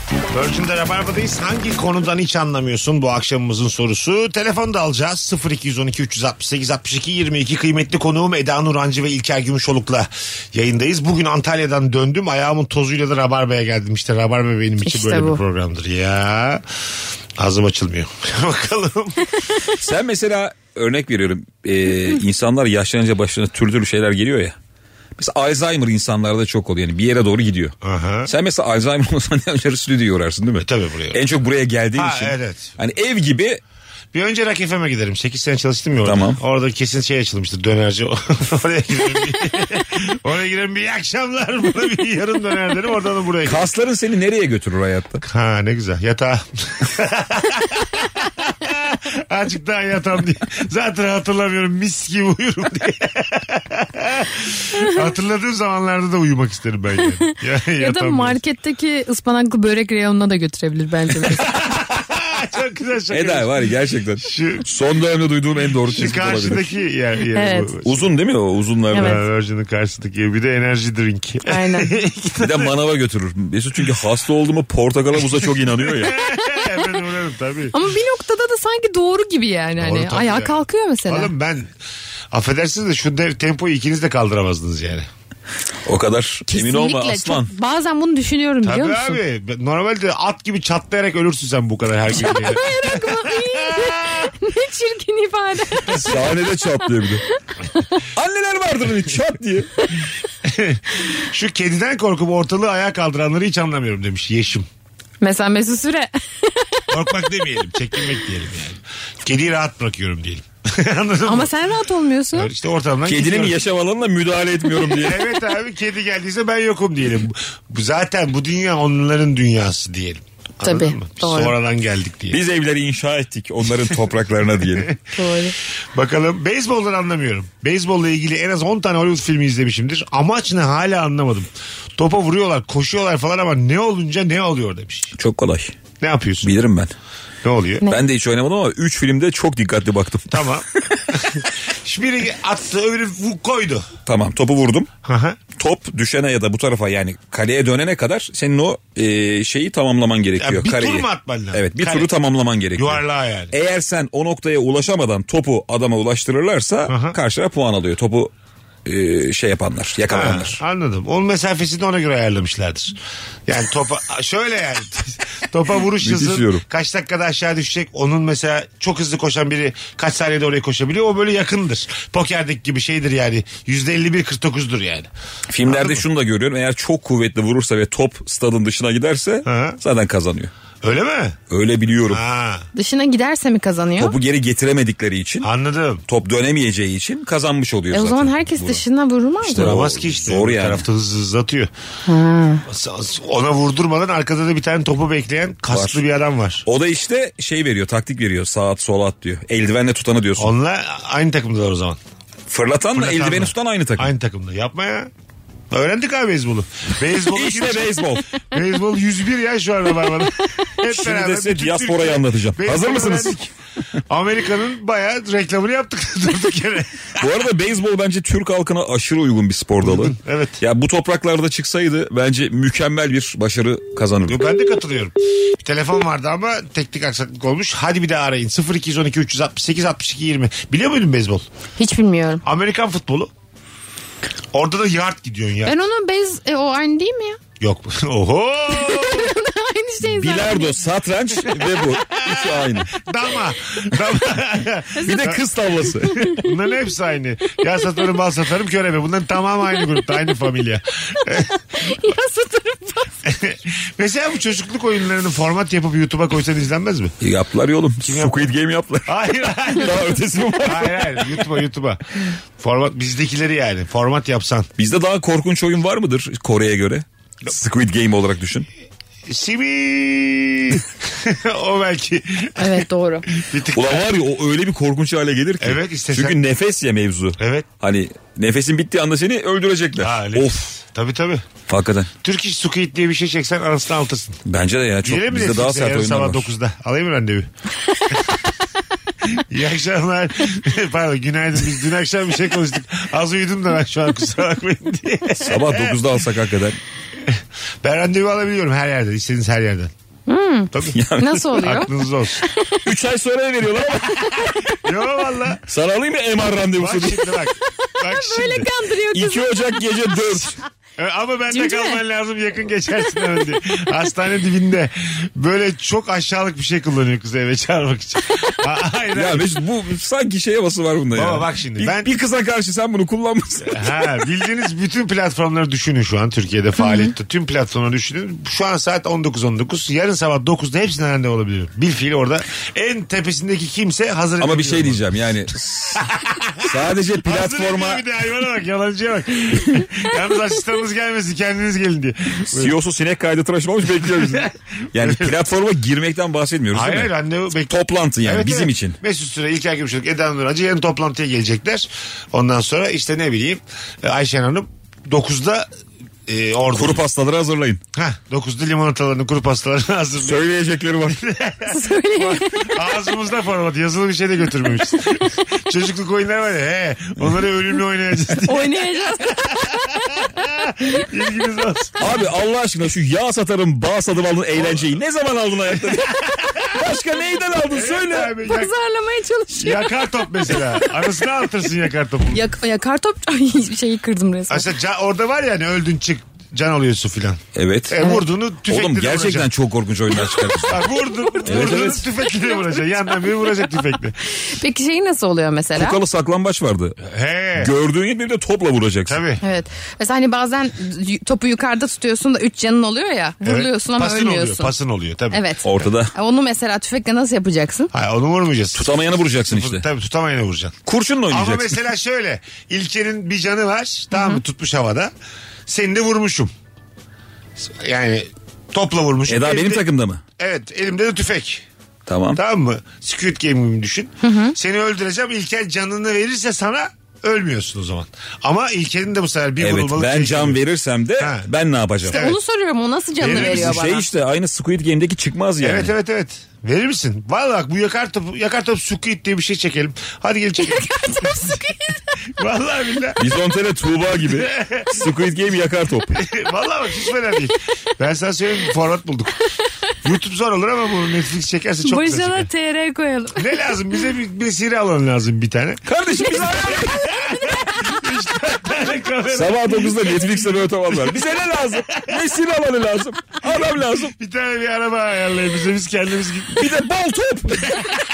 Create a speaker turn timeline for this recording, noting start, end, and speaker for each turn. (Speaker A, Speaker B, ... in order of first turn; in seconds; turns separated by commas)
Speaker A: 0.3-16.6, Speaker B: 14.8-15.4, Speaker A: 17.4-19.3, Speaker C: 19.8-24.6, Speaker C: 25.2-27.7, Speaker A: 27.8-28.3, Speaker C: 28.3-33.6, Speaker A: 30.6-31.2, Speaker A: 31.9-32.7, Speaker A: 34.1-43.7, Speaker C: 36.0-36.4, Speaker C: 43.4-45.2, Speaker A: 45.2-58.4, Speaker B: 57.3-61.6, Speaker A: 61.3-63.7, Speaker C: 63.1-66.7, Speaker A: 64.2-64.7, Speaker A: 65.9-68.1, Speaker B: 67.3-67.7, Speaker C: 67.8-69.2, Speaker B: 68.9-69.2, Speaker A: 68.9-72.7, Speaker B: 71.5-72.0, Speaker C: 72.4-76.2, Speaker A: 75.3-77.8, Speaker B: 76.4-76.9, Speaker B: 77.7-81.3, Speaker A: 79.8-81.7, Speaker A: 82.3-85.1, Speaker C: 85.9-87.5, Speaker B: 86.5-89.2, Speaker A: 88.6-94.3, Speaker B: 92.1-96.3, Speaker C: 95.9-97.2, Speaker C: 98.2-99.8, Speaker A: 100.4-104.7, Speaker B: 105.2-106.9, Speaker A: 106.9-111.5, Speaker B: 111.2-112.5, Speaker A: 112.3-113.6, Speaker C: 113.1-115.3, Speaker A: 114.9-122.4, Speaker B: 120.6-121.6, Speaker C: 122.3-124.9, Speaker B: 125.1-125.5, Speaker A: 125.9-135.2, Speaker C: 135.2-135.8, Speaker A: 136.0-136.5, Speaker C: 136.4-136.9, Speaker A: 137.4-137.9, Speaker C: 137.9-141.0, Speaker A: 140.3-143.9, Speaker C: 144.1-144.9, Speaker A: 145.0-145.4, Speaker C: 145.6-158.3, Speaker A: 150.4-152.1, Speaker A: 152.8-153.5, Speaker A: 156.9-157.2, Speaker C: 158.9-160.6, Speaker A: 160.1-175.1, Speaker C: 166.0-166.6, Speaker C: 175.5-180.5, Speaker A: 175.7-176.1, Speaker A: 179.4-179.8, Speaker A: 180.8-181.4, Speaker C: 181.5-182.2, Speaker A: 182.1-182.7, Speaker B: 182.8-184.2, Speaker C: 184.0-185.5, Speaker A: 185.4-186.0, Speaker C: 186.1-188.8, Speaker B: 187.9-189.8, Speaker C: 189.4-190.8, Speaker A: 189.5-191.7, Speaker B: 192.1-192.6, Speaker A: 192.7-196.6, Speaker C: 195.7-196.0, Speaker C: 196.7-200.5, Speaker A: 200.4-202.0, Speaker C: 202.5-204.1, Speaker A: 202.9-205.1, Speaker A: 205.7-213.4, Speaker C: 207.3-208.4, Speaker C: 210.8-213.5, Speaker A: 214.1-217.3, Speaker C: 217.2-224.4, Speaker A: 219.8-220.6, Speaker A: 224.3-231.5, Speaker B: 231.8-232.4, Speaker A: 232.4-233.3, Speaker A: 234.5-235.7, Speaker B: 235.7-237.4, Speaker A: 237.6-239.4, Speaker B: 238.7-240.8, Speaker C: 240.0-243.0, Speaker A: 241.5-245.4, Speaker B: 245.0-245.3, Speaker C: 245.0-246.4, Speaker A: 246.2-251.5, Speaker B: 251.7-253.2, Speaker A: 253.2-257.1, Speaker C: 257.2-261.4, Speaker A: 258.0-258.5, Speaker A: 259.1-264.7, Speaker C: 264.8-268.7, Speaker A: 269.3-274.1, Speaker B: 272.6-273.3, Speaker C: 273.7-280.7, Speaker A: 275.6-276.4, Speaker A: 277.4-277.7, Speaker A: 280.0-281.5, Speaker C: 281.7-282.1, Speaker A: 282.2-284.4, Speaker C: 284.5-286.5, Speaker A: 285.0-287.5, Speaker A: 289.3-296.0, Speaker C: 295.4-296.8, Speaker A: 297.2-299.9, Speaker B: 300.3-301.9, Speaker A: 300.7-301.0, Speaker C: 300.9-301.7, Speaker A: 301.5-302.4, Speaker B: 302.4-302.8, Speaker C: 302.8-304.6, Speaker A: 304.8-305.6, Speaker C: 305.7-307.4, Speaker A: 306.8-308.7, Speaker B: 307.9-309.9, Speaker C: 309.1-310.6, Speaker A: 311.0-319.5, Speaker B: 311.5-312.0, Speaker C: 319.1-324.2, Speaker A: 321.1-322.1, Speaker A: 323.6-335.0, Speaker B: 326.8-327.1, Speaker C: 334.4-338.0, Speaker A: 336.0-342.8, Speaker C: 342.5-347.1, Speaker A: 344.0-345.3, Speaker A: 346.7-355.7, Speaker C: 347.7-349.0, Speaker A: 356.3-357.0, Speaker C: 356.7-357.8, Speaker A: 357.9-360.5, Speaker C: 360.2-361.2, Speaker A: 361.1-372.1, Speaker B: 361.7-362.8, Speaker B: 368.5-370.5, Speaker C: 372.0-378.4, Speaker A: 374.6-374.9, Speaker A: 375.9-376.8, Speaker A: 377.7-378.7, Speaker B: 378.4-381.1, Speaker A: 379.5-382.4, Speaker B: 382.3-384.7, Speaker A: 384.5-389.5, Speaker C: 387.6-388.0, Speaker C: 388.7-390.9, Speaker A: 390.2-394.2, Speaker B: 391.2-391.5, Speaker C: 391.4-392.1, Speaker B: 392.4-393.7, Speaker B: 394.4-396.0, Speaker C: 395.8-397.0, Speaker A: 397.0-397.7, Speaker C: 397.6-399.2, Speaker A: 399.1-399.4, Speaker B: 399.4-404.7, Speaker A: 403.4-405.9, Speaker B: 405.3-407.9, Speaker C: 405.6-406.1, Speaker A: 407.9-410.8, Speaker C: 408.8-409.9, Speaker C: 410.9-411.8, Speaker A: 411.3-415.1, Speaker B: 414.1-414.4, Speaker A: 415.7-416.5, Speaker A: 417.6-419.8, Speaker C: 419.3-420.2, Speaker A: 420.4-421.6, Speaker C: 422.1-422.4, Speaker A: 422.3-430.6, Speaker B: 424.2-424.6, Speaker C: 429.6-432.3, Speaker A: 431.2-431.5, Speaker A: 432.1-432.4, Speaker B: 432.1-434.1, Speaker A: 433.2-433.9, Speaker C: 433.2-435.9, Speaker A: 435.6-441.7, Speaker B: 440.6-442.0, Speaker A: 442.4-443.2, Speaker C: 443.2-446.2, Speaker A: 444.2-445.1, Speaker A: 446.1-449.4, Speaker A: 450.0-452.5, Speaker B: 451.8-453.6, Speaker A: 453.4-462.2, Speaker C: 455.9-457.2, Speaker B: 457.1-457.7, Speaker C: 459.3-464.1, Speaker A: 464.2-466.7, Speaker C: 466.5-467.9